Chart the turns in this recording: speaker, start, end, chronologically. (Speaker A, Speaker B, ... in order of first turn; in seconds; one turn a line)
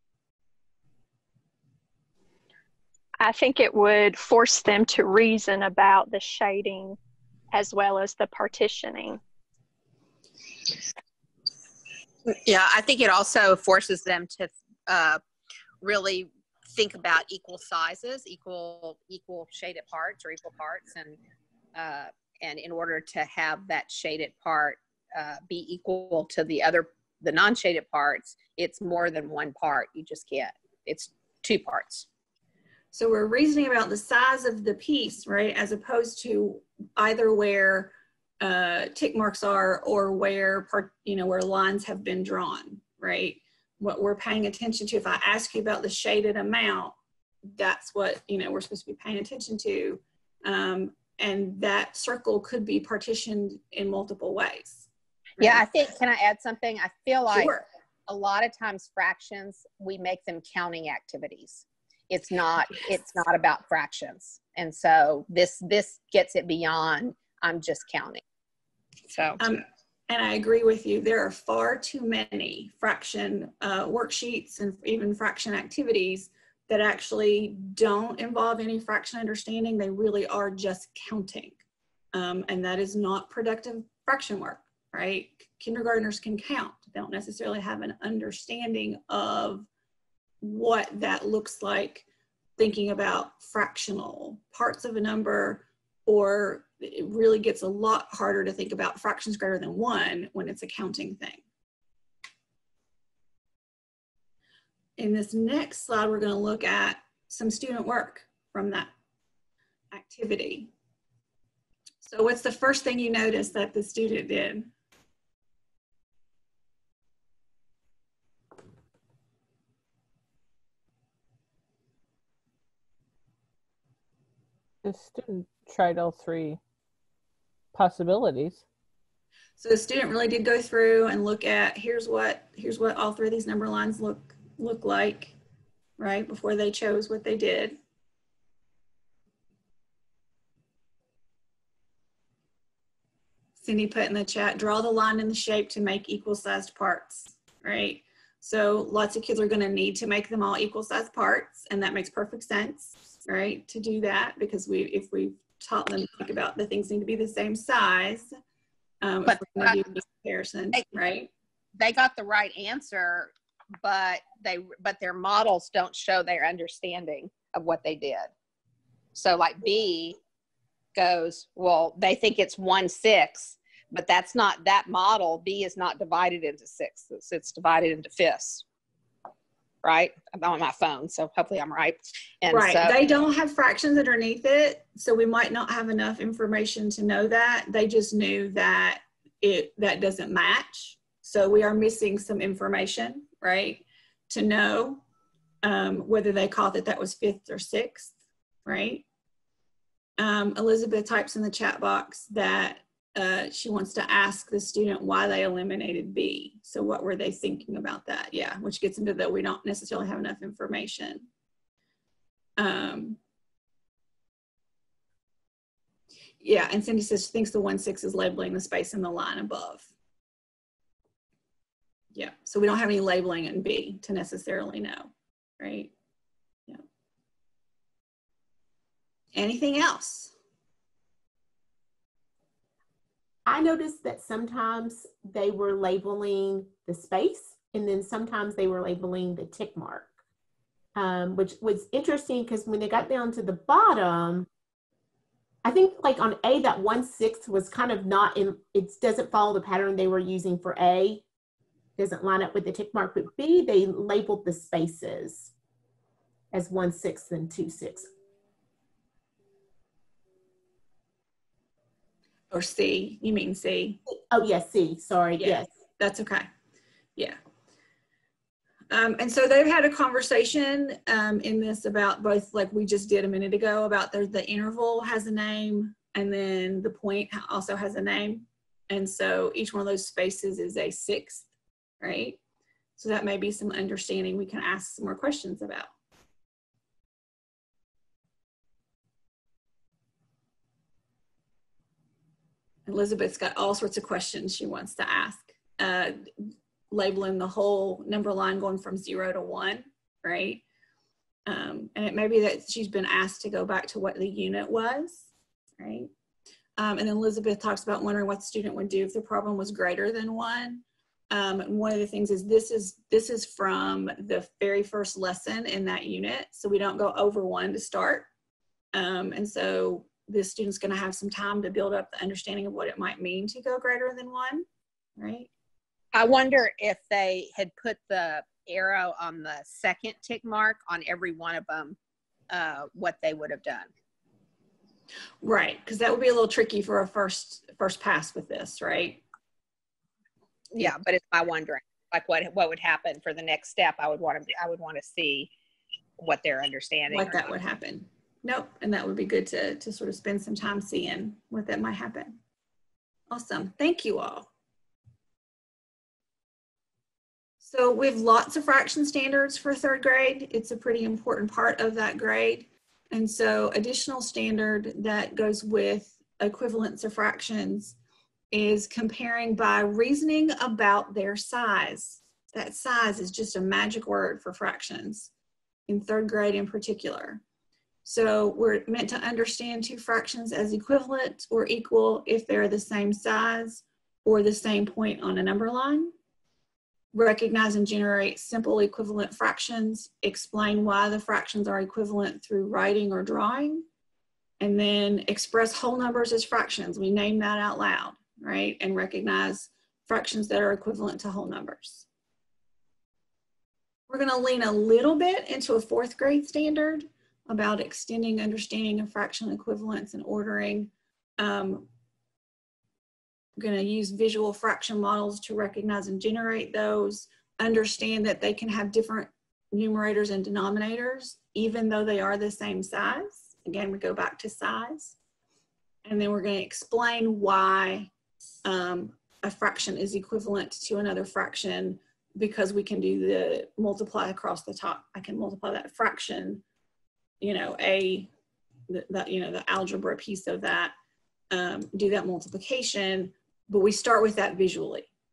Speaker A: 3.2-7.0
Speaker A: 7.5-9.2
Speaker B: 12.3-15.2
Speaker B: 15.8-21.2
Speaker B: 21.8-32.1
Speaker C: 32.9-47.0
Speaker C: 47.5-54.9
Speaker C: 55.4-55.7
Speaker B: 55.4-57.5
Speaker C: 57.3-57.6
Speaker B: 58.1-68.2
Speaker B: 69.1-69.4
Speaker C: 69.4-81.6
Speaker C: 82.1-89.7
Speaker C: 90.4-92.1
Speaker C: 92.6-101.4
Speaker C: 105.0-108.9
Speaker C: 109.9-110.7
Speaker C: 112.0-114.7
Speaker D: 124.8-126.6
Speaker D: 127.7-128.6
Speaker C: 129.6-135.3
Speaker C: 136.0-137.8
Speaker C: 143.6-158.3
Speaker C: 159.0-161.3
Speaker B: 159.3-159.8
Speaker B: 161.8-168.3
Speaker B: 169.2-170.2
Speaker B: 171.0-178.6
Speaker B: 179.8-183.0
Speaker C: 182.5-195.0
Speaker C: 195.6-198.2
Speaker C: 198.7-199.0
Speaker C: 200.2-211.3
Speaker C: 212.6-213.2
Speaker C: 216.4-219.9
Speaker C: 222.1-225.9
Speaker C: 229.3-230.3
Speaker E: 233.5-240.1
Speaker E: 240.9-244.5
Speaker E: 245.6-251.2
Speaker E: 252.0-255.5
Speaker E: 256.5-258.1
Speaker C: 262.5-264.0
Speaker E: 264.1-265.7
Speaker C: 265.4-266.5
Speaker C: 268.9-281.5
Speaker C: 282.0-282.4
Speaker C: 283.0-285.9
Speaker C: 292.9-300.6
Speaker C: 301.5-305.3
Speaker C: 305.8-306.1
Speaker C: 306.8-318.3
Speaker C: 318.9-324.7
Speaker C: 325.2-325.5
Speaker B: 326.1-332.0
Speaker B: 332.5-333.9
Speaker C: 335.4-339.2
Speaker B: 340.7-345.5
Speaker B: 346.2-347.5
Speaker C: 347.1-352.4
Speaker C: 353.3-354.5
Speaker C: 357.6-368.0
Speaker C: 368.5-375.3
Speaker C: 375.9-377.4
Speaker C: 378.1-386.1
Speaker C: 387.1-393.9
Speaker C: 394.6-402.1
Speaker C: 404.1-411.9
Speaker C: 413.6-425.2
Speaker C: 426.1-428.1
Speaker C: 428.6-436.6
Speaker C: 437.4-438.3
Speaker C: 438.9-440.9
Speaker C: 441.5-445.1